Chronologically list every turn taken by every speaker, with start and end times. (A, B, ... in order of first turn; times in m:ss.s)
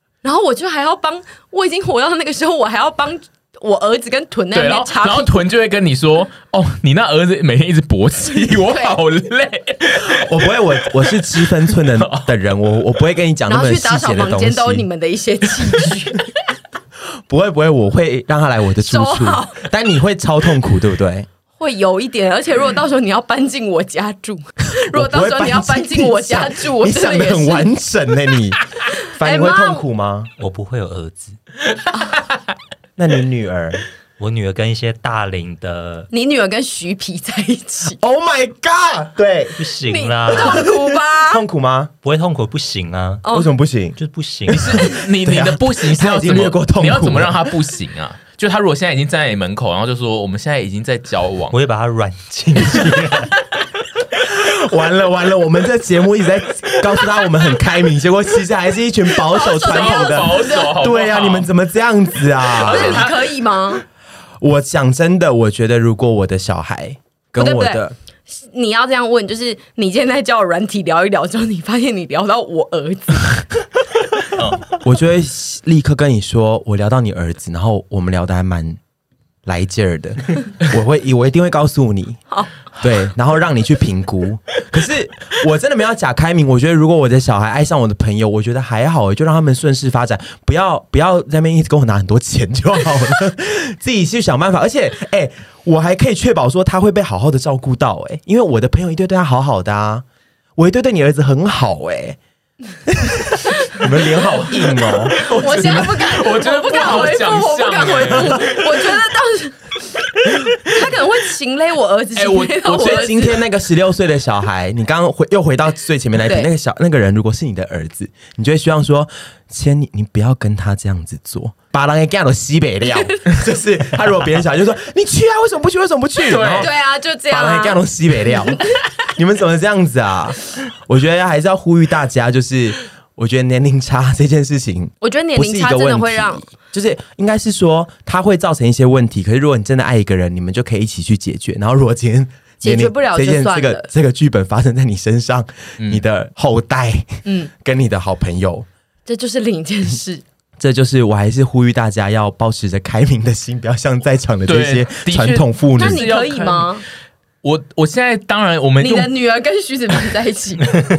0:00.2-0:05.4 A
0:04.5-0:10.3 B
0:08.4-0:09.0 A
0:10.0-0:14.9 C
0:11.1-0:12.3 B
0:13.5-0:16.3 A
0:17.3-0:21.3 C
0:18.8-0:19.6 A
0:21.6-0:27.7 A
0:24.8-0:30.3 C
0:29.2-0:29.8 A
0:30.4-0:31.4 D
0:31.9-0:32.2 A
0:33.0-0:33.8 C
0:34.2-0:36.1 D
0:36.1-0:38.0 A
0:37.9-0:39.6 C
0:39.6-0:40.7 D
0:39.9-0:41.4 A
0:40.4-0:41.9 C
0:42.0-0:43.3 D
0:43.2-0:43.5 A
0:43.3-0:44.0 C
0:44.0-0:44.9 D
0:44.5-0:51.6 B
0:44.7-0:47.5 C
0:51.5-0:53.3 D
0:54.2-1:03.1 C
0:59.2-1:00.8 A
0:59.4-1:01.5 B
1:02.5-1:03.3 B
1:02.6-1:03.8 A
1:04.4-1:08.0 C
1:07.4-1:13.5 A
1:14.7-1:18.8 C
1:19.5-1:22.2 C
1:22.8-1:40.0 C
1:40.6-1:42.2 C
1:42.9-1:45.8 C
1:44.2-1:49.0 B
1:45.2-1:53.3 A
1:52.2-1:53.4 B
1:52.8-2:06.7 C
1:56.2-1:56.5 A
2:02.9-2:03.3 A
2:06.2-2:06.7 B
2:06.6-2:08.6 A
2:07.3-2:28.7 C
2:15.0-2:16.4 A
2:22.6-2:23.9 A
2:27.3-2:27.5 A
2:29.1-2:30.2 A
2:30.6-2:36.0 C
2:34.5-2:36.8 B
2:35.8-2:36.8 A
2:37.4-2:39.1 B
2:38.8-2:40.8 A